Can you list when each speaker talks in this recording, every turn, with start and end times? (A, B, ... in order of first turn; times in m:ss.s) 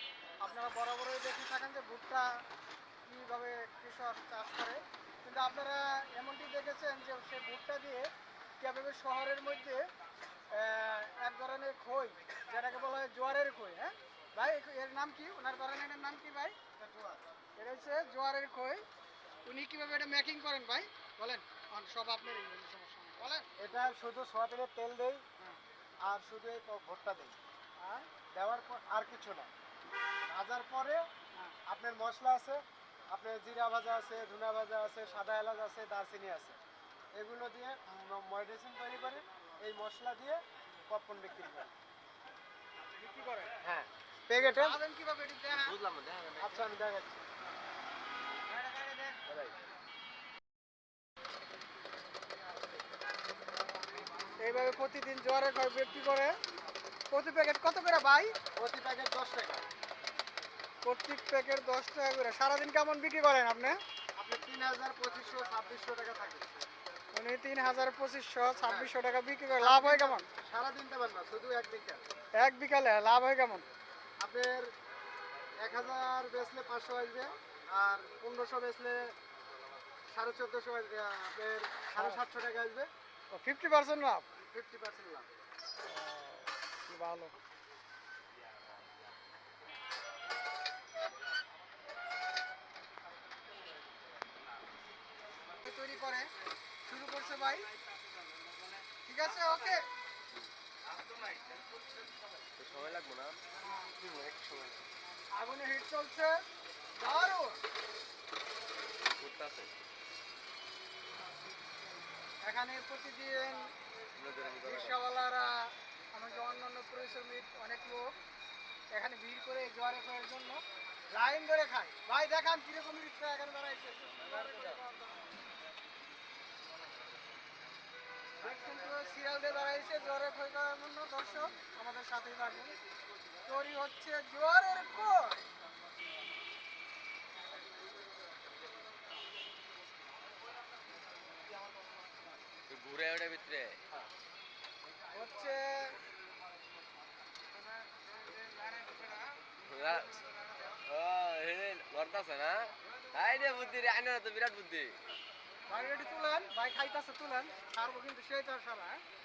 0:00.4-0:02.3 A
0:03.1-0:09.8 A
0:10.5-0:16.6 A
0:16.8-0:17.2 B
0:17.6-0:18.8 A
0:19.5-0:23.5 A
0:23.6-0:25.2 B
0:26.0-0:27.4 B
0:27.8-0:28.1 A
0:28.3-0:29.5 B
0:30.3-0:31.1 B
0:31.7-0:36.6 B
0:37.1-0:41.7 B
0:43.0-0:43.6 A
0:43.6-0:44.8 B
0:44.5-0:45.8 A
0:45.5-0:46.6 C
0:46.4-0:47.2 B
0:49.3-0:49.5 C
0:54.4-0:56.4 A
0:57.1-0:58.3 A
0:58.6-0:59.6 B
1:00.8-1:03.8 A
1:04.2-1:06.5 B
1:07.1-1:10.3 A
1:08.6-1:08.9 B
1:09.6-1:12.0 B
1:12.4-1:13.6 A
1:14.2-1:14.7 B
1:15.6-1:19.1 B
1:20.1-1:22.9 B
1:22.0-1:22.2 A
1:23.3-1:24.3 A
1:24.4-1:25.3 B
1:25.8-1:27.3 A
1:35.5-1:36.3 A
1:36.8-1:37.7 A
1:39.0-1:39.8 A
1:42.6-1:43.4 C
1:43.6-1:44.0 A
1:44.0-1:44.7 C
1:45.4-1:46.4 A
1:47.0-1:47.6 A
1:49.0-1:49.7 C
1:52.4-1:53.7 A
1:54.2-1:55.0 C
1:54.6-1:58.2 A
1:58.9-2:05.3 A
2:04.4-2:04.7 C
2:08.4-2:12.8 A
2:13.4-2:15.4 A
2:22.7-2:23.8 C
2:25.1-2:26.0 A
2:29.6-2:34.9 C
2:35.7-2:39.0 A